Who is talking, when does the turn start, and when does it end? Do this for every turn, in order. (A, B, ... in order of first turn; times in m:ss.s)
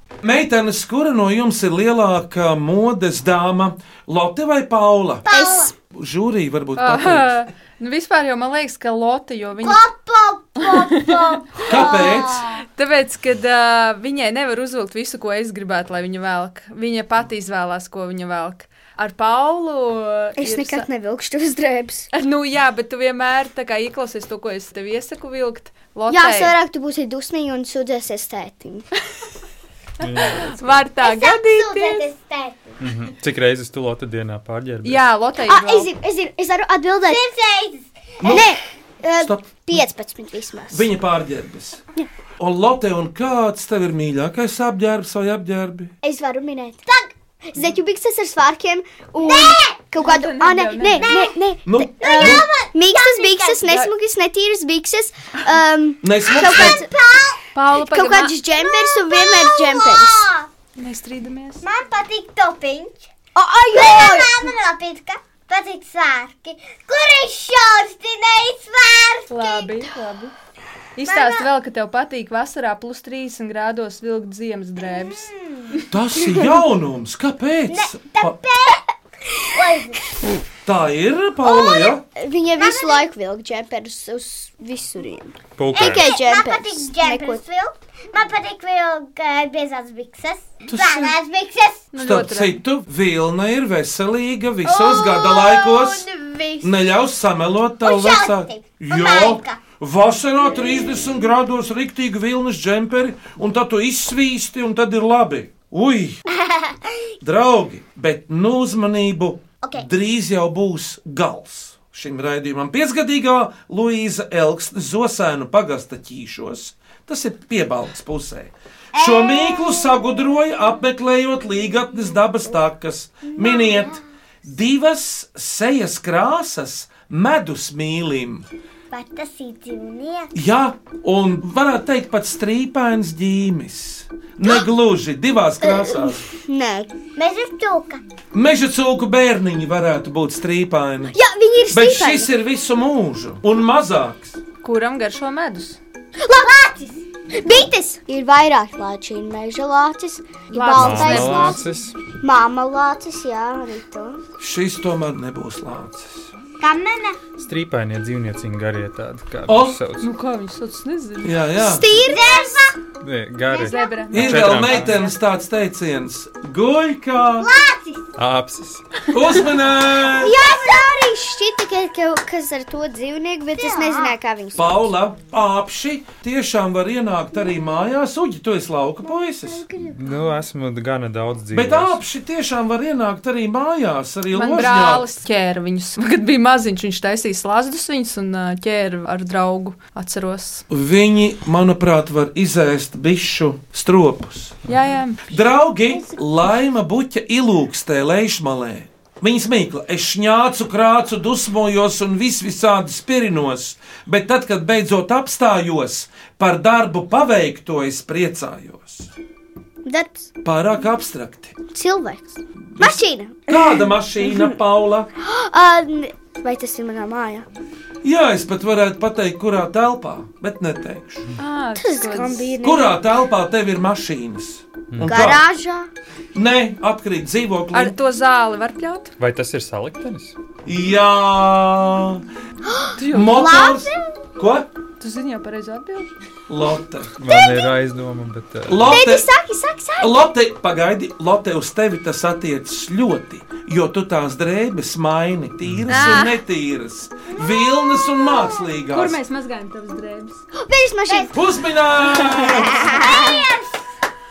0:00.2-0:05.2 A
0:05.2-0:05.7 B
0:05.3-0:05.7 C
0:05.9-0:07.3 A
0:06.8-0:09.8 D
0:09.6-0:12.6 B
0:11.6-0:12.4 A
0:12.7-0:20.8 D
0:20.4-0:22.1 C
0:22.1-0:26.5 D
0:26.1-0:28.8 C
0:30.0-0:30.6 E
0:30.2-0:32.0 D
0:31.0-0:32.8 B
0:32.8-0:35.1 E
0:34.8-0:35.9 D
0:35.4-0:37.2 C
0:37.0-0:38.4 B
0:38.2-0:38.4 A
0:38.3-0:40.9 C
0:39.2-0:39.8 A
0:40.7-0:41.8 A
0:42.4-0:45.9 A
0:46.0-0:46.8 C
0:46.9-0:47.1 B
0:47.5-0:56.9 C
0:49.2-0:49.8 B
0:50.0-0:51.1 D
0:50.9-0:51.3 B
0:51.6-0:52.5 A
0:52.0-0:53.8 B
0:56.0-0:56.8 A
0:56.3-0:57.4 B
0:57.5-0:58.4 D
0:57.8-1:00.2 C
0:58.5-1:00.5 B
1:00.8-1:01.6 D
1:01.6-1:03.1 B
1:03.3-1:04.5 C
1:03.7-1:09.8 B
1:09.3-1:10.3 D
1:11.0-1:15.3 D
1:11.0-1:11.5 B
1:14.8-1:15.8 B
1:15.9-1:18.4 A
1:17.7-1:18.9 B
1:19.4-1:20.0 B
1:20.6-1:22.0 A
1:21.4-1:21.9 B
1:22.2-1:27.4 C
1:22.6-1:23.0 B
1:25.6-1:26.1 E
1:25.7-1:31.9 B
1:30.7-1:31.1 A
1:31.9-1:32.6 D
1:32.0-1:36.0 A
1:34.6-1:36.8 B
1:36.6-1:46.2 A
1:37.8-1:39.6 B
1:46.4-1:46.7 B
1:47.2-2:08.4 A
1:59.0-2:00.2 B
2:03.3-2:04.0 B
2:08.9-2:10.3 B
2:10.3-2:16.2 A
2:15.6-2:16.9 C
2:17.1-2:18.0 B
2:18.3-2:21.1 A
2:21.1-2:22.3 C
2:21.7-2:24.4 A
2:24.6-2:25.8 D
2:26.3-2:27.7 B
2:27.4-2:34.2 C
2:30.5-2:31.5 D
2:30.7-2:31.9 E
2:34.4-2:36.3 A
2:36.6-2:37.2 B
2:37.4-2:40.1 E
2:39.5-2:39.8 A
2:40.0-2:41.4 D
2:41.2-2:41.9 A
2:41.6-2:42.6 C
2:41.9-2:42.8 B
2:43.0-2:45.1 E
2:43.5-2:43.8 B
2:43.6-2:45.1 D
2:44.1-2:47.5 A
2:47.4-2:48.0 B
2:48.2-2:48.8 E
2:49.1-2:50.4 A
2:50.2-2:54.9 C
2:50.2-2:51.0 B
2:53.5-2:54.1 B
2:54.5-2:59.6 A
2:59.6-3:00.2 B
2:59.9-3:02.0 E
3:01.5-3:05.0 A
3:04.3-3:10.6 D
3:10.7-3:14.6 A
3:14.7-3:15.2 D
3:15.3-3:29.1 A
3:29.8-3:30.3 C
3:30.4-3:31.6 A
3:31.7-3:33.8 C
3:32.7-3:35.1 A
3:35.2-3:37.5 C
3:38.0-3:41.2 A
3:41.4-3:42.5 D
3:41.7-3:43.0 C
3:42.6-3:45.4 A
3:44.9-3:45.3 E
3:45.0-3:45.9 C
3:46.3-3:47.9 A
3:47.7-3:49.1 D
3:49.2-3:50.4 E
3:50.6-3:52.2 A
3:53.0-3:53.6 D
3:53.1-3:54.7 A
3:53.3-3:54.1 B
3:55.0-3:56.1 D
3:56.5-3:57.2 A
3:57.2-3:59.0 E
3:58.7-3:59.2 A
3:58.8-4:00.1 C
4:00.0-4:09.2 A
4:05.6-4:06.1 E
4:05.9-4:06.3 D
4:07.4-4:08.5 B
4:08.9-4:10.4 D
4:10.5-4:11.3 C
4:11.3-4:13.0 A
4:12.3-4:13.8 B
4:12.5-4:13.5 C